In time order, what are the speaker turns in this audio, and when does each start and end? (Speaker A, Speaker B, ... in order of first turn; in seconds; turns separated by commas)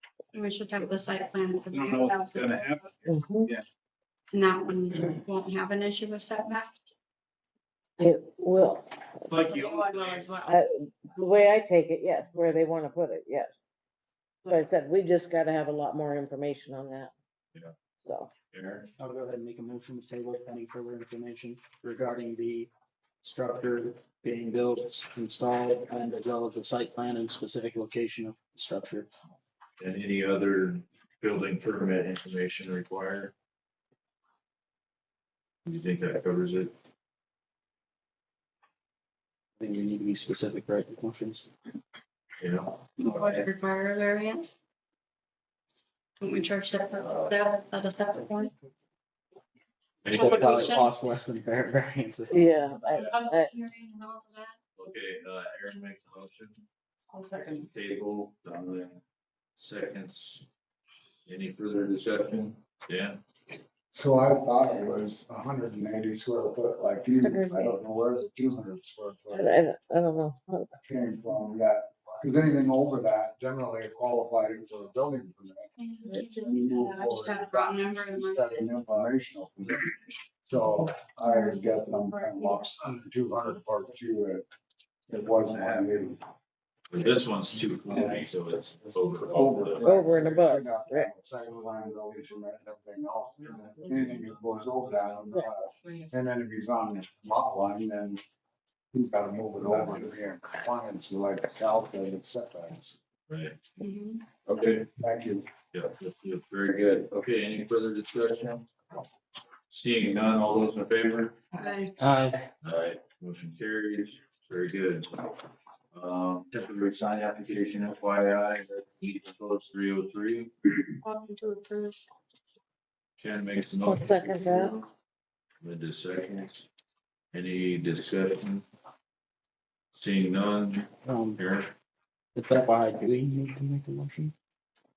Speaker A: 0.3-2.7, Speaker B: 1.7-3.6, Speaker C: 3.1-3.5, Speaker A: 4.3-6.7, Speaker C: 8.0-9.4, Speaker D: 9.3-10.4, Speaker A: 9.4-10.6, Speaker C: 10.4-13.5, Speaker C: 14.5-17.1, Speaker C: 18.0-18.3, Speaker D: 18.5-18.9, Speaker E: 19.0-22.7, Speaker E: 23.2-29.1, Speaker D: 29.8-33.3, Speaker D: 35.7-36.7, Speaker E: 39.6-41.5, Speaker D: 42.4-43.5, Speaker A: 43.0-44.5, Speaker A: 46.2-48.5, Speaker D: 47.0-47.3, Speaker D: 50.0-50.7, Speaker A: 50.1-51.0, Speaker E: 50.1-52.5, Speaker C: 52.3-53.6, Speaker D: 52.9-53.4, Speaker A: 53.1-54.5, Speaker D: 54.8-56.6, Speaker D: 57.5-59.0, Speaker D: 59.6-60.4, Speaker D: 61.3-63.2, Speaker F: 63.9-69.5, Speaker C: 67.2-67.8, Speaker C: 69.3-70.7, Speaker F: 70.8-75.7, Speaker A: 76.1-78.8, Speaker F: 76.2-84.5, Speaker A: 82.1-82.5, Speaker F: 85.1-86.2, Speaker B: 85.4-86.2, Speaker D: 86.9-89.8, Speaker F: 89.3-98.2, Speaker C: 89.8-91.1, Speaker B: 93.9-94.2, Speaker F: 98.9-103.0, Speaker D: 99.7-100.1, Speaker D: 103.3-103.6, Speaker A: 103.8-104.2, Speaker D: 104.5-104.8, Speaker F: 104.8-105.5, Speaker D: 105.7-108.7, Speaker D: 109.7-111.4, Speaker A: 111.6-112.0, Speaker E: 112.0-112.5, Speaker D: 112.6-115.2, Speaker D: 115.9-120.5, Speaker A: 121.0-122.0, Speaker D: 123.2-124.9, Speaker C: 123.8-124.8, Speaker D: 125.6-126.7, Speaker D: 127.3-128.7, Speaker D: 129.9-131.7, Speaker E: 131.1-131.4, Speaker E: 132.3-134.3